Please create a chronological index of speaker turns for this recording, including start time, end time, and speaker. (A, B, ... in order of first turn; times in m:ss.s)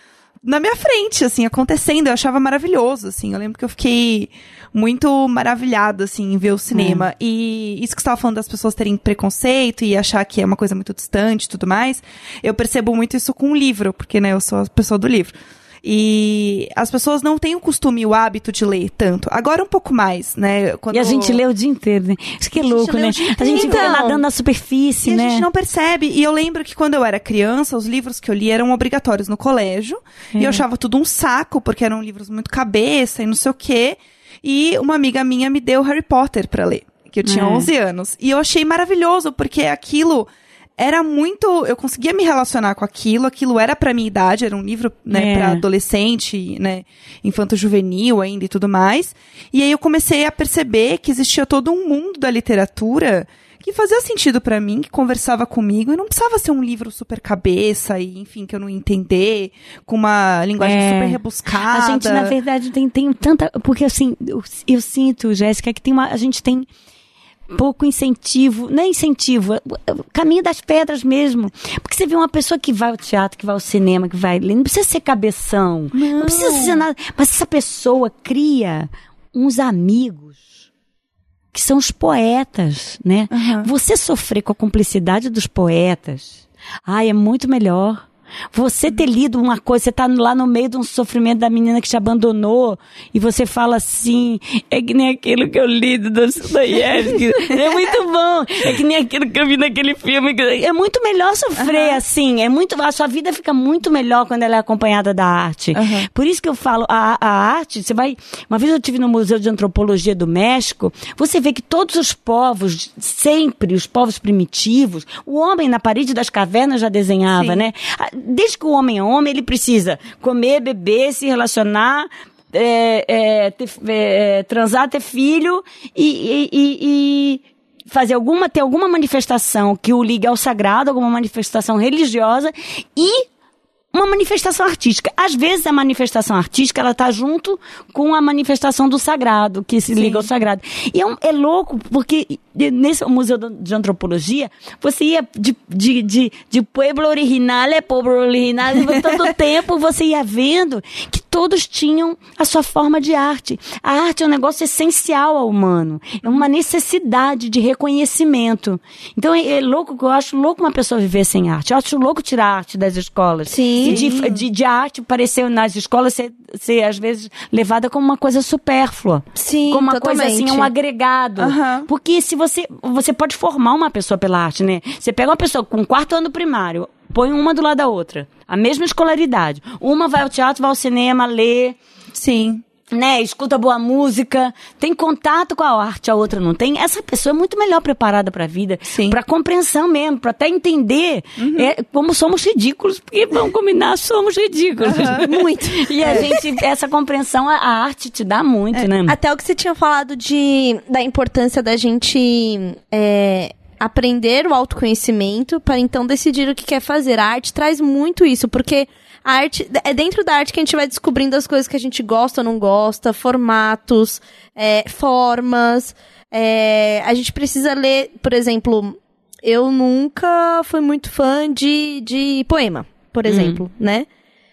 0:00.4-0:21.4 A
0:06.7-0:07.0 B
0:20.9-0:25.4 B
0:22.6-0:24.2 C
0:22.7-0:24.0 A
0:25.0-1:02.4 A
0:30.3-0:30.6 B
0:37.2-0:37.7 B
0:45.1-0:45.6 B
1:00.6-1:06.7 B
1:07.5-1:20.4 B
1:15.9-1:16.8 A
1:21.5-2:13.2 B
1:23.3-1:23.7 A
1:41.6-1:42.0 A
1:45.7-1:46.0 A
1:57.3-1:57.6 A
2:13.9-3:01.8 B
2:19.9-2:20.3 A
2:43.5-2:44.0 C
2:43.8-2:44.4 A
2:49.3-2:50.7 C
2:51.4-2:51.9 A
3:02.1-3:02.6 A
3:02.9-3:19.2 B
3:08.9-3:09.2 A
3:11.4-3:11.7 A
3:14.9-3:15.3 A
3:15.0-3:16.6 C
3:16.0-3:16.3 A
3:19.0-3:44.1 C
3:43.3-3:43.6 B